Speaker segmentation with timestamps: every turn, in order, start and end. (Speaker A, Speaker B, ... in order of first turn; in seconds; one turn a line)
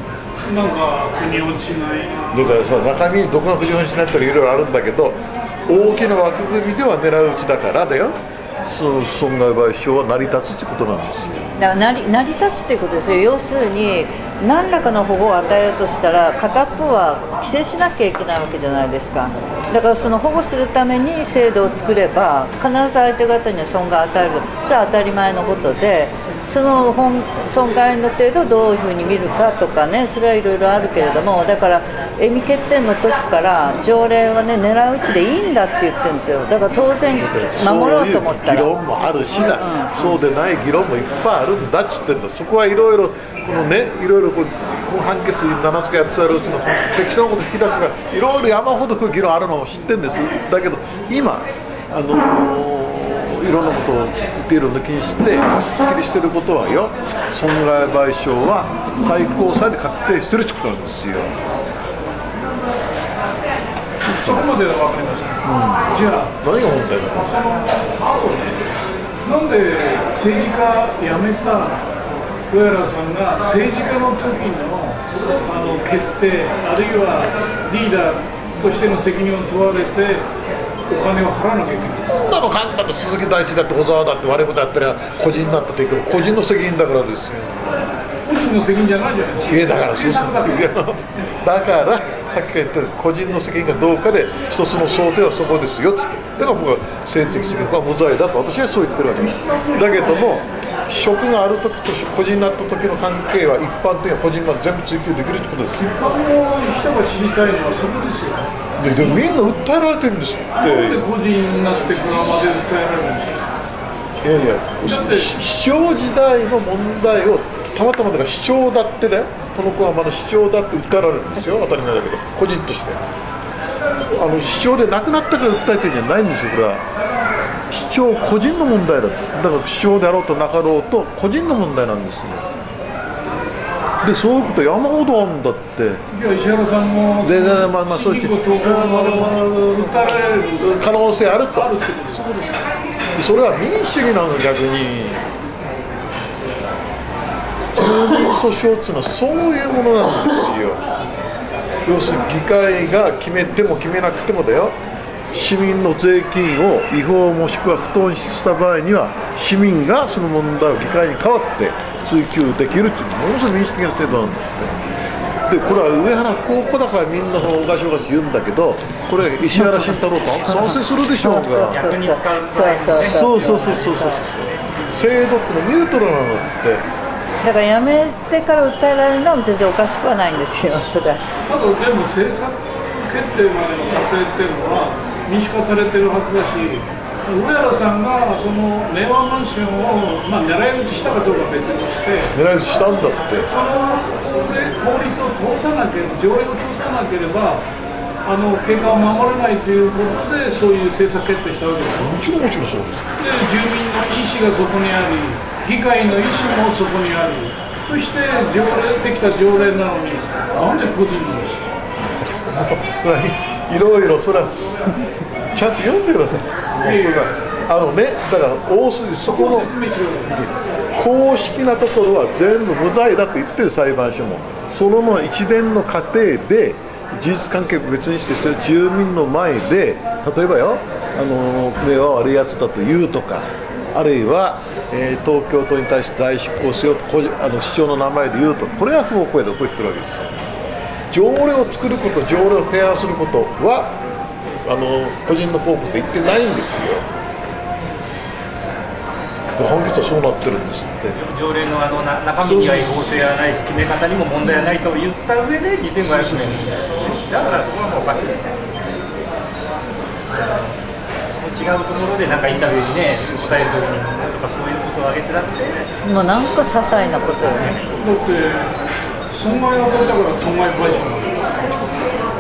Speaker A: 0.5-2.5
Speaker B: 2.3-11.5
Speaker C: 11.6-38.7
Speaker B: 37.2-61.3
Speaker C: 39.5-39.9
Speaker A: 64.1-66.3
Speaker B: 64.1-64.5
Speaker B: 65.4-67.3
Speaker A: 67.2-68.6
Speaker A: 69.2-71.9
Speaker A: 72.5-80.3
Speaker A: 80.9-82.4
Speaker B: 82.1-87.9
Speaker A: 88.2-90.7
Speaker B: 89.4-105.9
Speaker A: 99.2-100.4
Speaker A: 105.8-108.6
Speaker B: 108.8-111.0
Speaker A: 110.6-113.5
Speaker B: 111.7-112.5
Speaker B: 114.2-123.0
Speaker A: 114.8-115.3
Speaker B: 124.1-126.8
Speaker B: 127.7-132.4
Speaker B: 134.0-136.0
Speaker A: 136.1-142.2
Speaker B: 137.2-142.6
Speaker B: 143.1-145.2
Speaker B: 147.7-150.8
Speaker B: 151.8-154.8
Speaker B: 155.3-164.7
Speaker B: 165.5-171.8
Speaker C: 169.4-174.2
Speaker D: 171.5-174.1
Speaker B: 173.0-176.8
Speaker C: 177.4-181.2
Speaker A: 181.4-192.3
Speaker B: 192.3-193.5
Speaker A: 193.5-197.6
Speaker A: 198.2-202.1
Speaker B: 202.0-203.1
Speaker A: 203.2-211.7
Speaker B: 212.2-214.9
Speaker B: 215.5-219.7
Speaker A: 216.8-217.3
Speaker A: 219.2-220.4
Speaker B: 220.3-240.4
Speaker B: 241.1-243.9
Speaker B: 244.6-247.1
Speaker B: 249.6-251.2
Speaker D: 251.2-258.6
Speaker B: 252.4-253.0
Speaker B: 256.0-256.7
Speaker D: 261.4-265.9
Speaker B: 262.4-263.8
Speaker C: 266.0-267.8
Speaker D: 267.4-267.9
Speaker A: 268.0-268.7
Speaker A: 269.3-271.4